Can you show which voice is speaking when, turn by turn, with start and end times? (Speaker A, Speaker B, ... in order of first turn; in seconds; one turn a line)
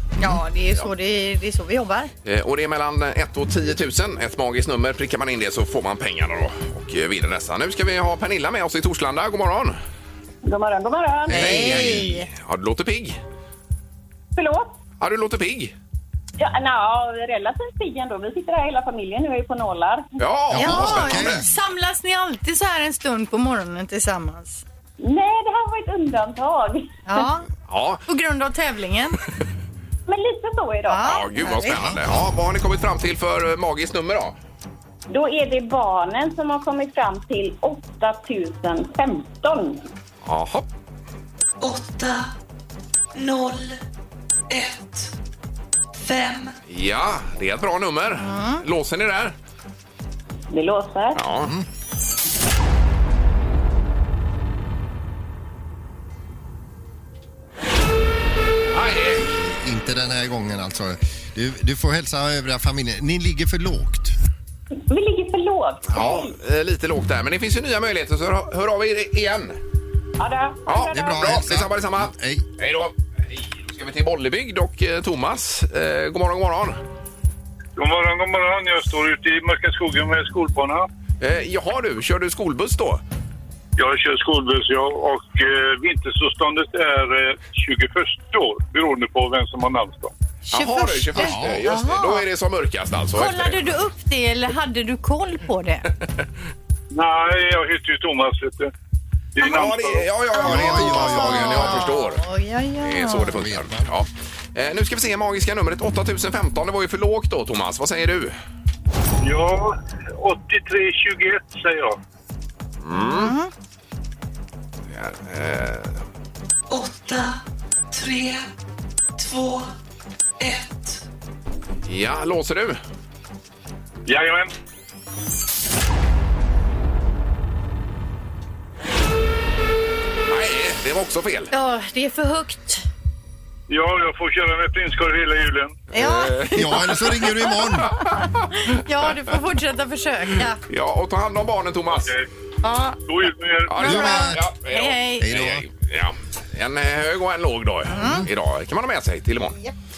Speaker A: 0.2-2.1
Speaker B: 2.2-9.8
Speaker C: 10.4-11.7
Speaker B: 11.3-13.2
Speaker A: 11.3-12.3
Speaker C: 14.3-14.7
Speaker B: 15.0-15.7
Speaker C: 16.4-20.1
Speaker B: 20.2-21.4
Speaker D: 20.5-21.4
Speaker A: 20.5-24.6
Speaker C: 25.0-27.2
Speaker A: 27.1-27.4
Speaker B: 27.7-28.0
Speaker A: 28.1-29.2
Speaker C: 30.1-31.1
Speaker A: 30.9-31.8
Speaker B: 31.0-34.3
Speaker C: 35.1-39.8
Speaker B: 40.2-40.6
Speaker E: 41.6-42.3
Speaker E: 43.1-43.8
Speaker E: 44.5-45.1
Speaker E: 46.0-46.5
Speaker B: 46.7-49.3
Speaker A: 48.2-48.6
Speaker C: 50.5-51.2
Speaker B: 51.1-51.5
Speaker B: 58.7-59.2
Speaker D: 59.1-64.2
Speaker C: 64.9-66.3
Speaker B: 65.9-69.6
Speaker C: 70.2-71.4
Speaker B: 70.7-76.8
Speaker D: 70.9-72.5
Speaker F: 77.8-80.8
Speaker B: 81.2-83.0
Speaker F: 83.8-90.1
Speaker B: 90.5-93.6
Speaker A: 90.5-92.2
Speaker D: 91.2-91.6
Speaker A: 93.1-95.8
Speaker F: 96.9-98.7
Speaker F: 99.3-100.0
Speaker B: 99.4-102.2
Speaker D: 100.4-101.9
Speaker A: 100.4-103.3
Speaker B: 102.8-108.3
Speaker D: 103.3-103.9
Speaker F: 109.2-112.0
Speaker B: 112.8-113.3
Speaker A: 113.0-113.5
Speaker B: 114.9-116.0
Speaker E: 116.7-117.4
Speaker E: 117.9-118.5
Speaker E: 119.2-119.7
Speaker E: 120.4-121.0
Speaker B: 121.8-122.8
Speaker F: 124.1-124.5
Speaker B: 130.3-131.5
Speaker A: 131.5-132.8
Speaker F: 133.7-135.7
Speaker B: 135.9-136.5
Speaker A: 135.9-137.9
Speaker D: 136.5-137.9
Speaker A: 138.6-140.6
Speaker B: 140.7-142.1
Speaker A: 142.6-143.0
Speaker F: 143.1-143.7
Speaker B: 143.7-149.6
Speaker D: 143.8-144.4
Speaker A: 143.8-145.3
Speaker D: 145.2-145.7
Speaker A: 147.9-148.2